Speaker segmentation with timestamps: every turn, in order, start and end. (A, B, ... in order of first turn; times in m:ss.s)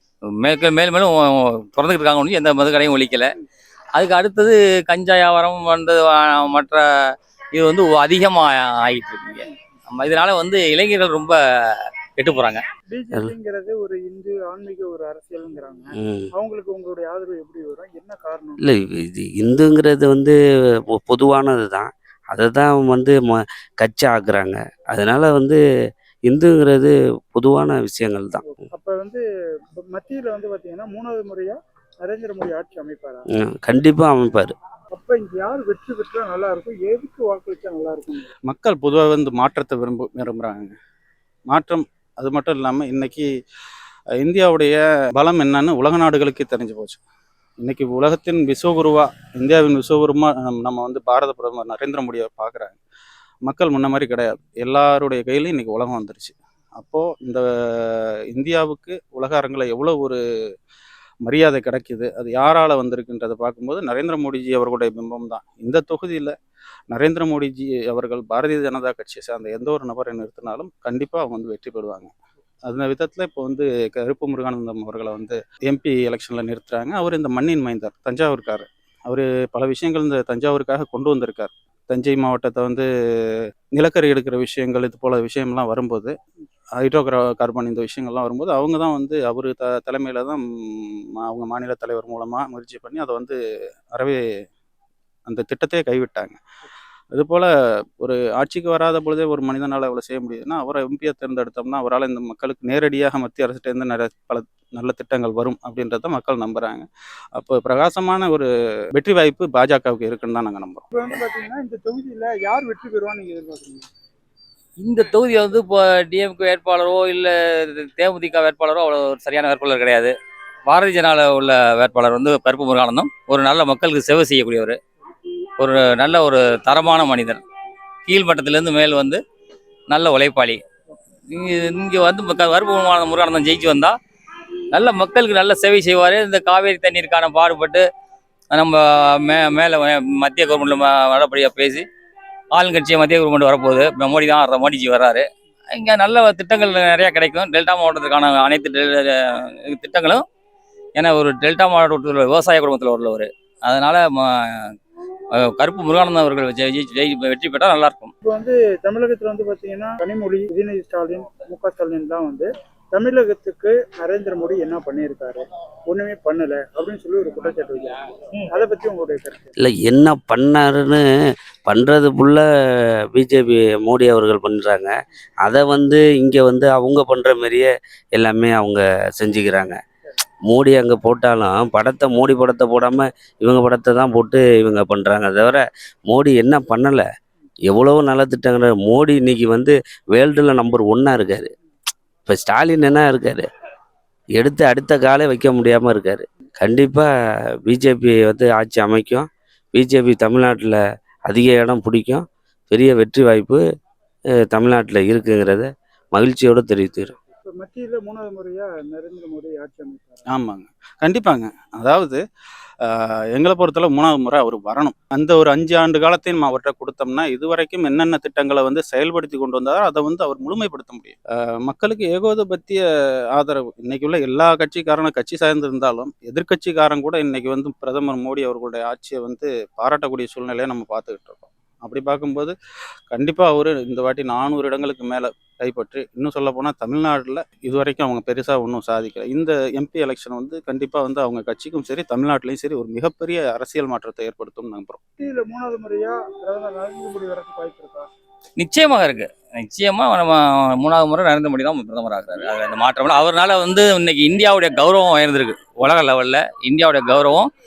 0:00.4-0:03.3 A
0:03.9-0:06.8 A
0:07.5-0:11.4 A
0:12.2-0:12.6 A
0:12.9-0:18.6 B
0:16.0-0:16.3 C
0:18.6-0:20.4 C
0:20.9-0:25.6 C
0:26.3-0:28.4 C
0:28.4-0:29.2 B
0:29.8-0:33.2 B
0:33.3-0:34.5 C
0:34.9-0:38.3 B
0:38.5-0:40.7 D
0:41.5-0:43.3 D
0:44.2-0:47.0 D
0:47.6-0:52.8 D
0:53.4-1:00.2 D
1:01.2-1:06.3 D
1:06.9-1:12.1 D
1:12.6-1:26.1 D
1:26.8-1:33.4 D
1:33.9-1:34.2 D
1:35.3-1:36.4 D
1:37.1-1:50.8 D
1:50.9-1:53.9 B
1:54.8-2:00.1 A
2:00.6-2:04.8 A
2:05.6-2:07.4 A
2:08.0-2:09.2 A
2:09.9-2:10.6 A
2:11.3-2:13.9 A
2:14.7-2:17.8 A
2:18.5-2:21.8 A
2:22.5-2:30.2 A
2:31.0-2:34.7 A
2:35.3-2:38.1 A
2:38.2-2:49.5 B
2:49.6-2:51.0 C
2:51.7-2:52.4 C
2:53.1-2:54.9 C
2:55.4-2:59.8 C
3:00.5-3:07.0 C
3:07.7-3:11.5 C
3:12.2-3:13.4 C
3:14.4-3:17.1 C
3:17.6-3:23.6 C
3:24.4-3:27.1 C
3:27.3-3:30.2 B
3:30.3-3:32.2 D
3:32.8-3:42.8 D
3:43.4-3:52.5 D
3:53.1-4:05.0 D
4:05.2-4:08.1 B
4:08.6-4:17.5 A